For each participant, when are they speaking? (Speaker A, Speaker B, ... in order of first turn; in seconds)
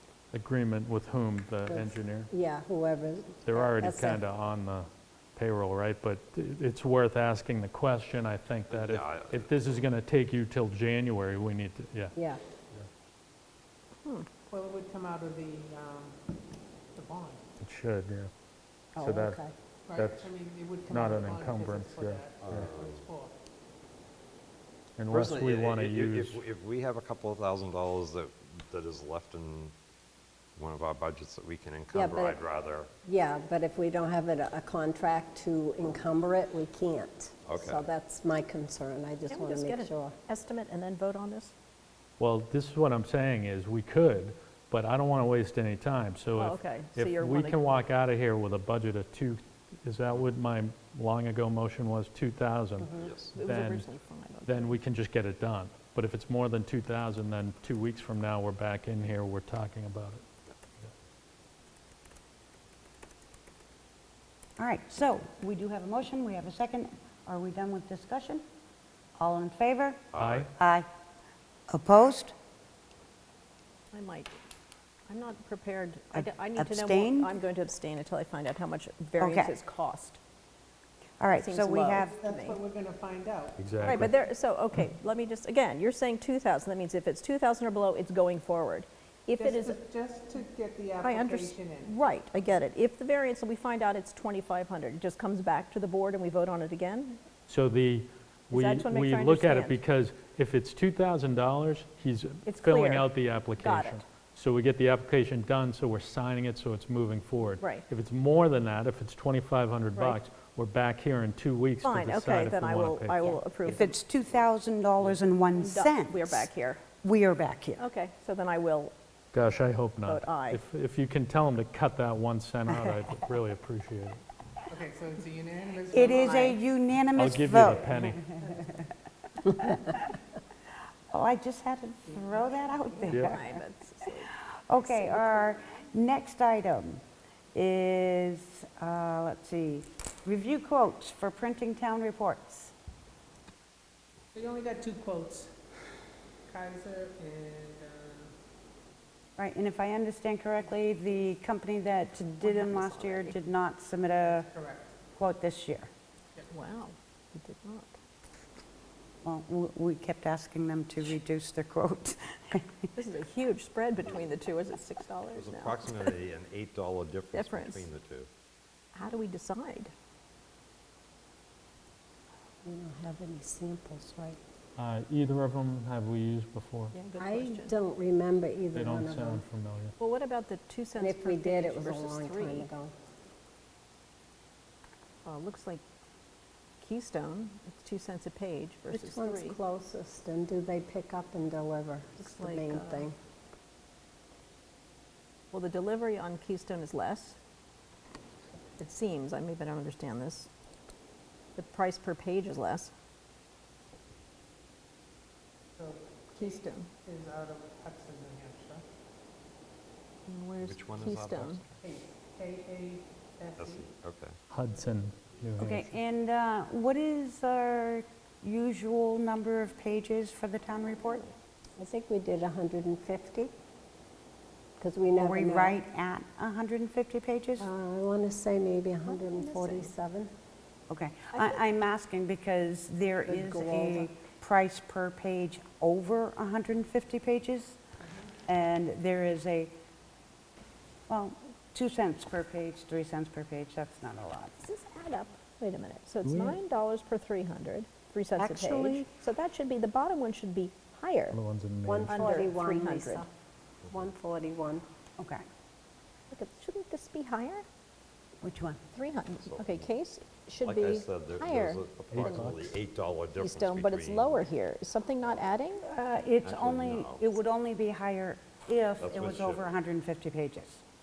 Speaker A: 0.3-2.3, 3.4-12.1, 17.6-18.3, 19.0-19.4, 19.9-20.3, 20.9-22.7, 25.0-26.4, 42.2-53.9, 54.5-60.2, 70.2-70.5, 83.6-84.1, 97.5-113.4, 119.3-124.2, 127.2-128.2, 174.8-176.9, 178.7-179.9, 214.5-215.9, 246.2-246.6, 251.3-252.4, 262.1-262.6
Speaker B: 1.6-4.2, 12.1-12.4, 18.9-19.5, 31.9-32.4, 33.0-40.1, 172.6-174.4, 177.2-179.4, 181.0-182.9, 188.9-193.1, 221.8-223.5, 224.8-225.8, 227.6-230.3, 233.2-234.1, 251.8-253.3, 253.9-254.8
Speaker C: 8.7-9.8, 22.4-23.1, 25.1-29.7, 30.6-32.9, 37.5-37.9, 52.9-53.4, 70.1-70.5, 165.3-168.3, 210.6-211.8, 213.6-214.4, 259.4-259.9, 260.6-264.5, 266.4-267.4, 269.0-269.7
Speaker D: 14.5-16.3, 16.9-17.4, 19.9-23.3, 82.0-84.1, 89.4-92.0, 124.7-126.5, 128.4-128.7, 132.1-133.1, 144.3-145.5, 146.5-148.3, 154.2-154.9, 205.7-208.8, 211.8-213.9
Speaker E: 39.3-41.5, 46.4-47.8, 53.3-54.8, 73.9-74.3, 75.1-80.2, 81.3-82.6, 83.8-89.8, 91.0-97.2, 98.5-99.8, 102.4-104.0, 107.6-107.8, 109.9-110.2, 111.8-113.9, 115.5-116.8, 117.8-118.9, 120.0-120.6, 126.0-126.6, 133.1-135.5, 152.4-153.4, 156.5-157.9, 162.9-166.1, 167.3-167.9, 168.9-169.9, 176.9-177.7, 180.0-182.7, 185.2-185.8, 186.8-189.6, 192.2-193.1, 195.5-197.4, 198.8-200.5, 201.6-202.9, 206.3-206.9, 210.2-211.6, 229.1-229.9, 244.6-251.4, 252.1-253.2, 256.3-257.6, 258.9-262.5, 263.4-265.8
Speaker F: 64.6-68.4, 69.2-70.0, 70.6-70.9, 71.7-72.3, 76.1-77.3, 79.2-79.5, 81.2-82.2, 113.6-116.5, 117.0-117.8, 122.7-123.0, 125.9-128.9, 129.4-130.0, 131.1-137.0, 137.5-142.7, 149.4-154.5, 155.2-155.9, 159.2-162.8, 215.6-221.3, 225.2-227.7, 230.9-237.8, 238.5-239.7, 241.1-244.5, 248.4-249.0, 255.2-255.4, 258.4-258.8, 265.9-270.8